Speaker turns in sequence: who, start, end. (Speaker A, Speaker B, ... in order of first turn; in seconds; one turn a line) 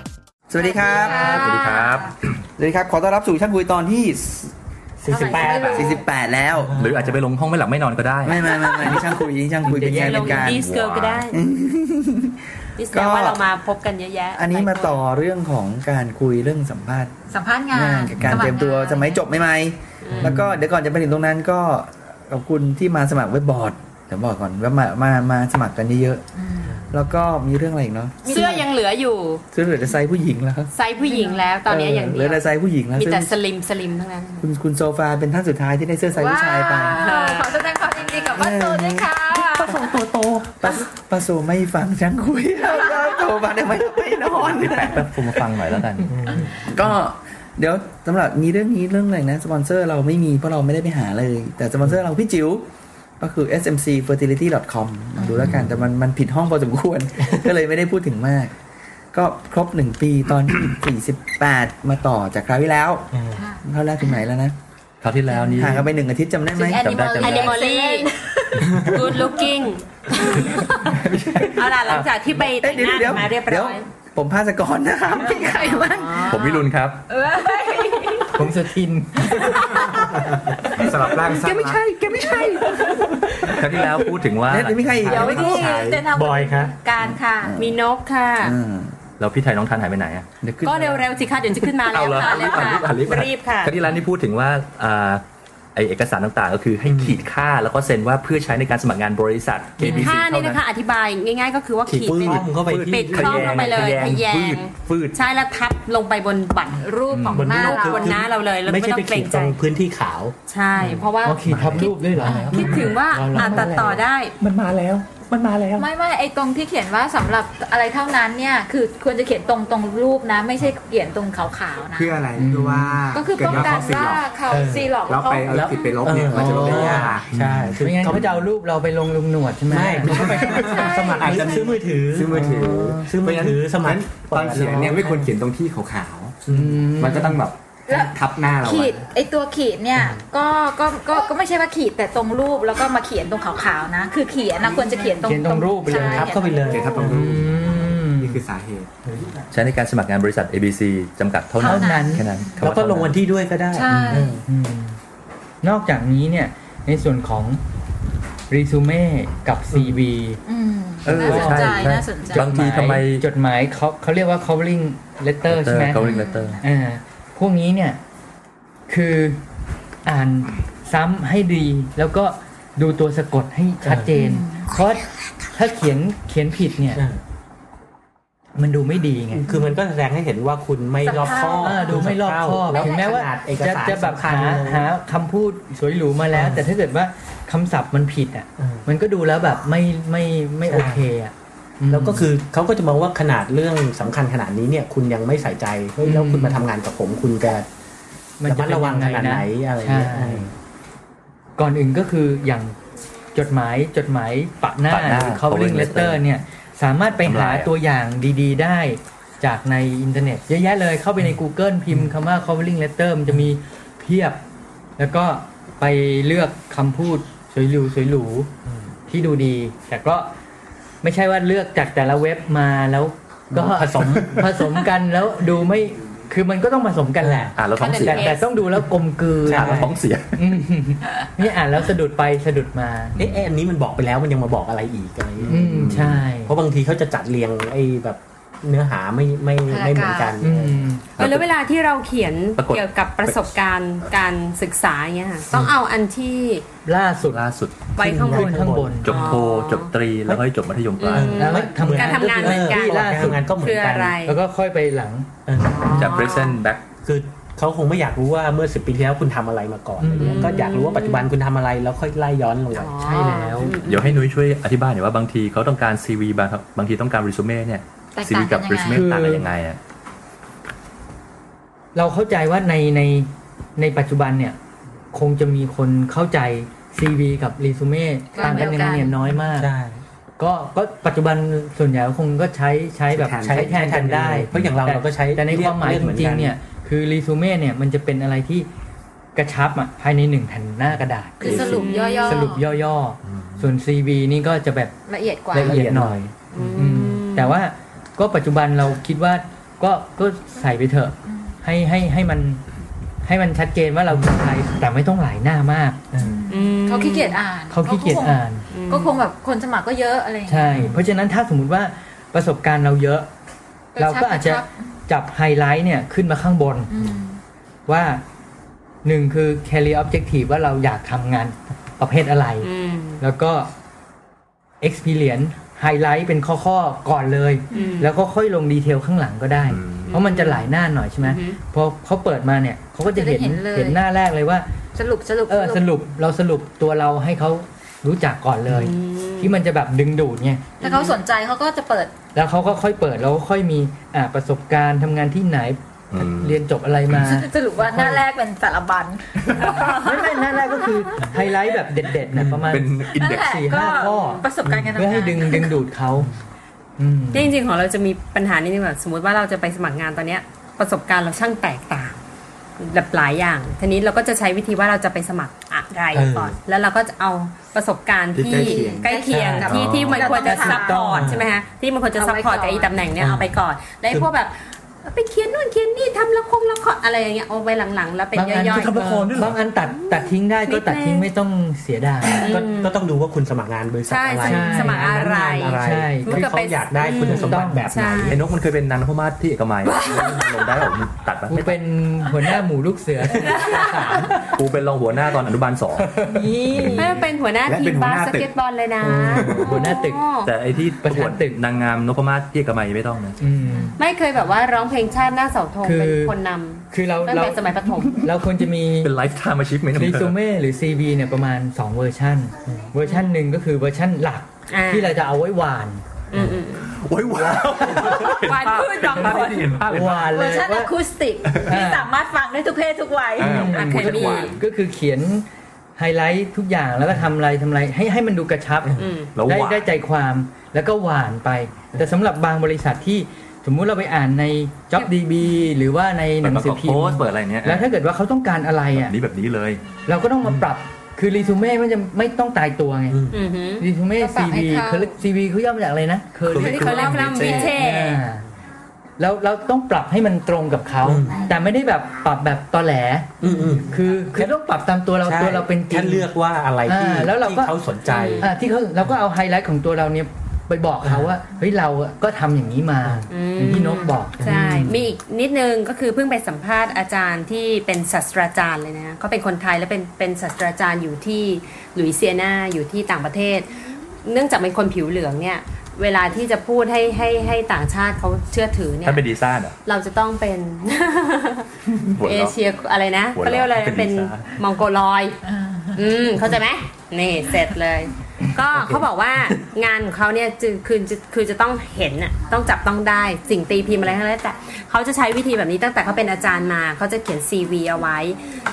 Speaker A: 0.5-1.4
Speaker B: 0.6-2.1
Speaker C: 1.2-2.1
Speaker A: 2.6-4.5
Speaker D: 5.0-6.0
Speaker B: 5.1-6.0
Speaker A: 5.3-6.8
Speaker D: 6.5-7.2
Speaker C: 6.7-8.9
Speaker A: 8.2-10.6
Speaker B: 8.5-8.9
Speaker E: 9.6-10.4
Speaker F: 10.0-11.4
Speaker C: 10.1-11.3
Speaker A: 11.3-12.3
Speaker F: 12.8-15.0
Speaker A: 12.9-13.4
Speaker A: 14.3-17.1
Speaker B: 17.3-19.3
Speaker A: 17.7-26.2
Speaker F: 20.0-20.4
Speaker E: 20.2-20.6
Speaker B: 26.4-26.9
Speaker A: 26.9-28.5
Speaker B: 28.2-28.6
Speaker F: 28.2-29.4
Speaker A: 29.5-30.7
Speaker F: 30.7-34.5
Speaker B: 31.0-31.4
Speaker A: 31.6-33.3
Speaker A: 34.4-37.0
Speaker B: 36.1-39.8
Speaker F: 37.0-37.6
Speaker A: 38.1-45.5
Speaker B: 42.7-43.3
Speaker C: 44.4-46.3
Speaker D: 46.1-46.5
Speaker A: 46.4-52.6
Speaker A: 53.2-58.5
Speaker B: 55.2-55.5
Speaker C: 55.3-55.8
Speaker A: 59.1-63.1
Speaker D: 63.1-63.4
Speaker B: 63.3-64.2
Speaker A: 63.6-64.6
Speaker C: 65.0-65.8
Speaker B: 65.3-65.8
Speaker A: 65.5-66.9
Speaker B: 66.5-69.4
Speaker C: 66.8-67.6
Speaker F: 67.2-68.1
Speaker F: 68.8-70.8
Speaker C: 70.8-72.0
Speaker F: 71.5-73.8
Speaker A: 71.8-76.3
Speaker B: 75.1-78.6
Speaker F: 76.0-76.4
Speaker C: 76.2-77.0
Speaker E: 78.3-79.6
Speaker B: 79.3-80.2
Speaker G: 80.8-81.8
Speaker E: 81.3-83.9
Speaker A: 81.4-82.6
Speaker C: 83.6-85.3
Speaker A: 84.5-85.7
Speaker B: 85.1-87.5
Speaker G: 85.1-86.0
Speaker D: 86.1-86.7
Speaker A: 87.0-87.8
Speaker F: 87.6-88.5
Speaker A: 88.4-88.9
Speaker C: 89.2-90.3
Speaker A: 90.4-91.0
Speaker F: 90.6-93.8
Speaker C: 91.8-95.2
Speaker B: 92.1-92.8
Speaker C: 95.7-100.6
Speaker D: 96.9-97.2
Speaker F: 99.8-109.6
Speaker D: 99.8-100.1
Speaker D: 101.9-103.8
Speaker G: 102.5-105.1
Speaker B: 107.0-108.2
Speaker C: 107.1-107.5
Speaker D: 107.3-110.3
Speaker F: 110.5-114.3
Speaker E: 110.8-114.0
Speaker C: 111.4-112.8
Speaker B: 112.2-112.8
Speaker A: 114.4-115.8
Speaker C: 115.3-115.8
Speaker B: 115.8-122.2
Speaker G: 121.9-124.3
Speaker E: 122.4-123.0
Speaker B: 123.1-125.7
Speaker D: 124.5-128.3
Speaker G: 125.0-127.4
Speaker E: 126.1-127.2
Speaker C: 127.3-128.2
Speaker E: 127.8-130.6
Speaker D: 129.7-135.3
Speaker B: 130.4-131.8
Speaker G: 131.2-136.5
Speaker E: 132.3-133.0
Speaker D: 136.5-136.8
Speaker E: 136.5-137.4
Speaker G: 137.0-139.1
Speaker B: 137.9-147.0
Speaker D: 139.9-140.2
Speaker E: 145.2-146.3
Speaker D: 145.8-147.2
Speaker G: 146.6-148.9
Speaker E: 147.0-148.4
Speaker C: 149.5-153.2
Speaker B: 151.6-152.5
Speaker E: 151.6-152.2
Speaker D: 152.6-154.4
Speaker B: 153.7-154.4
Speaker E: 153.9-155.0
Speaker E: 155.6-157.6
Speaker E: 158.5-160.4
Speaker B: 160.4-162.5
Speaker C: 161.0-163.2
Speaker E: 161.1-168.0
Speaker C: 165.4-166.6
Speaker B: 166.0-166.6
Speaker E: 168.9-169.4
Speaker E: 170.0-177.0
Speaker D: 173.8-174.1
Speaker B: 174.1-174.7
Speaker D: 176.9-177.2
Speaker E: 178.6-179.4
Speaker D: 179.3-184.9
Speaker B: 179.5-179.7
Speaker B: 181.0-182.0
Speaker E: 181.6-192.3
Speaker B: 182.7-183.1
Speaker D: 186.3-186.6
Speaker D: 188.6-188.8
Speaker D: 190.7-191.1
Speaker D: 191.9-197.7
Speaker E: 196.0-196.6
Speaker E: 198.4-200.5
Speaker D: 198.4-200.5
Speaker E: 201.6-202.8
Speaker E: 203.3-214.4
Speaker C: 204.9-206.2
Speaker C: 207.2-207.7
Speaker E: 215.0-218.5
Speaker E: 219.1-220.3
Speaker E: 221.0-233.2
Speaker D: 223.5-224.9
Speaker D: 227.2-227.5
Speaker C: 227.5-228.3
Speaker F: 227.8-228.4
Speaker D: 229.4-229.9
Speaker C: 229.4-230.4
Speaker D: 233.2-240.8
Speaker E: 235.5-236.5
Speaker B: 239.7-240.4
Speaker E: 240.4-241.0
Speaker C: 241.2-241.4
Speaker F: 241.2-246.6
Speaker C: 242.6-243.4
Speaker E: 246.8-247.4
Speaker C: 247.2-247.8
Speaker F: 247.9-249.9
Speaker D: 248.0-249.1
Speaker E: 248.3-249.1
Speaker C: 249.0-251.5
Speaker F: 251.0-254.3
Speaker D: 251.1-254.2
Speaker E: 251.3-253.6
Speaker E: 254.2-255.3
Speaker D: 255.5-256.1
Speaker F: 255.6-256.6
Speaker C: 255.9-256.8
Speaker D: 257.0-263.9
Speaker E: 260.0-260.5
Speaker F: 260.2-261.3
Speaker F: 262.7-264.2
Speaker E: 263.0-263.7
Speaker C: 263.8-269.8
Speaker B: 268.1-269.0
Speaker E: 268.9-269.5
Speaker E: 271.9-274.6
Speaker E: 275.1-279.7
Speaker B: 278.3-279.2
Speaker D: 279.5-280.0
Speaker E: 280.4-288.7
Speaker G: 283.1-283.8
Speaker D: 283.4-286.6
Speaker C: 284.5-284.8
Speaker E: 289.3-294.9
Speaker B: 291.4-292.6
Speaker G: 291.5-291.7
Speaker F: 291.7-292.5
Speaker B: 295.1-295.8
Speaker E: 295.5-296.2
Speaker G: 295.6-296.3
Speaker F: 296.5-297.6
Speaker D: 296.5-296.8
Speaker E: 296.8-302.6
Speaker E: 303.2-306.0
Speaker D: 306.1-306.4
Speaker B: 306.2-310.8
Speaker F: 306.5-307.4
Speaker E: 307.7-308.6
Speaker F: 308.7-309.2
Speaker E: 310.5-313.3
Speaker D: 310.7-311.0
Speaker B: 313.9-314.8
Speaker E: 314.0-316.9
Speaker B: 316.9-317.4
Speaker E: 317.9-318.2
Speaker E: 319.0-322.7
Speaker F: 322.6-323.2
Speaker E: 323.2-323.7
Speaker E: 324.8-334.7
Speaker F: 327.7-328.1
Speaker C: 329.7-330.1
Speaker F: 330.1-330.7
Speaker F: 331.2-331.6
Speaker B: 333.0-334.0
Speaker B: 334.9-335.8
Speaker E: 335.5-340.7
Speaker F: 338.7-339.5
Speaker F: 340.8-341.2
Speaker B: 340.8-342.1
Speaker E: 342.3-348.2
Speaker C: 346.1-346.6
Speaker B: 347.2-349.8
Speaker C: 349.6-349.9
Speaker F: 349.6-349.9
Speaker E: 349.8-354.4
Speaker D: 352.3-352.7
Speaker C: 352.6-353.9
Speaker B: 353.2-355.8
Speaker F: 353.9-354.4
Speaker D: 354.6-355.0
Speaker E: 355.0-356.3
Speaker E: 357.0-357.5
Speaker F: 357.3-362.2
Speaker F: 362.8-379.3
Speaker D: 366.1-366.6
Speaker G: 368.3-369.1
Speaker B: 368.5-371.3
Speaker D: 369.3-369.9
Speaker C: 369.6-370.3
Speaker E: 370.3-371.2
Speaker D: 371.0-371.5
Speaker B: 372.1-373.0
Speaker D: 373.2-373.6
Speaker E: 378.3-382.5
Speaker C: 378.9-379.5
Speaker F: 380.0-381.3
Speaker F: 382.4-382.9
Speaker D: 382.4-388.4
Speaker F: 384.1-388.4
Speaker E: 384.4-385.2
Speaker E: 385.8-386.5
Speaker E: 387.2-387.9
Speaker C: 388.3-391.8
Speaker E: 391.5-394.5
Speaker F: 393.4-394.1
Speaker C: 394.4-397.3
Speaker E: 396.1-397.2
Speaker F: 396.9-400.5
Speaker G: 397.6-398.5
Speaker E: 399.0-400.2
Speaker C: 400.4-403.4
Speaker E: 401.0-401.6
Speaker E: 403.4-403.9
Speaker F: 404.0-408.2
Speaker E: 405.8-406.4
Speaker E: 406.9-407.6
Speaker E: 408.2-409.1
Speaker C: 409.0-410.4
Speaker E: 409.9-416.0
Speaker F: 413.0-413.3
Speaker F: 414.7-415.2
Speaker F: 416.3-416.9
Speaker C: 416.9-420.4
Speaker E: 418.0-418.3
Speaker F: 418.2-419.8
Speaker E: 419.8-420.9
Speaker B: 420.2-423.7
Speaker E: 421.6-422.1
Speaker C: 423.4-424.6
Speaker E: 423.4-425.4
Speaker F: 423.7-424.6
Speaker E: 426.0-439.1
Speaker D: 428.8-429.1
Speaker F: 429.0-429.3
Speaker C: 429.3-429.9
Speaker C: 436.4-437.9
Speaker C: 439.0-439.8
Speaker E: 440.1-443.2
Speaker D: 443.1-443.4
Speaker F: 443.3-443.8
Speaker E: 443.8-448.4
Speaker B: 444.2-445.1
Speaker C: 446.5-447.7
Speaker B: 446.6-447.7
Speaker F: 446.6-448.2
Speaker E: 449.2-456.3
Speaker D: 451.0-451.5
Speaker D: 453.4-454.6
Speaker D: 455.2-458.5
Speaker E: 456.9-457.8
Speaker F: 458.1-458.5
Speaker E: 458.4-464.4
Speaker D: 461.0-461.3
Speaker F: 463.3-473.7
Speaker D: 464.4-465.1
Speaker F: 474.2-479.2
Speaker C: 479.0-479.8
Speaker F: 479.9-481.7
Speaker C: 482.0-482.6
Speaker F: 482.2-485.4
Speaker C: 483.3-484.5
Speaker B: 485.5-486.0
Speaker F: 485.9-498.4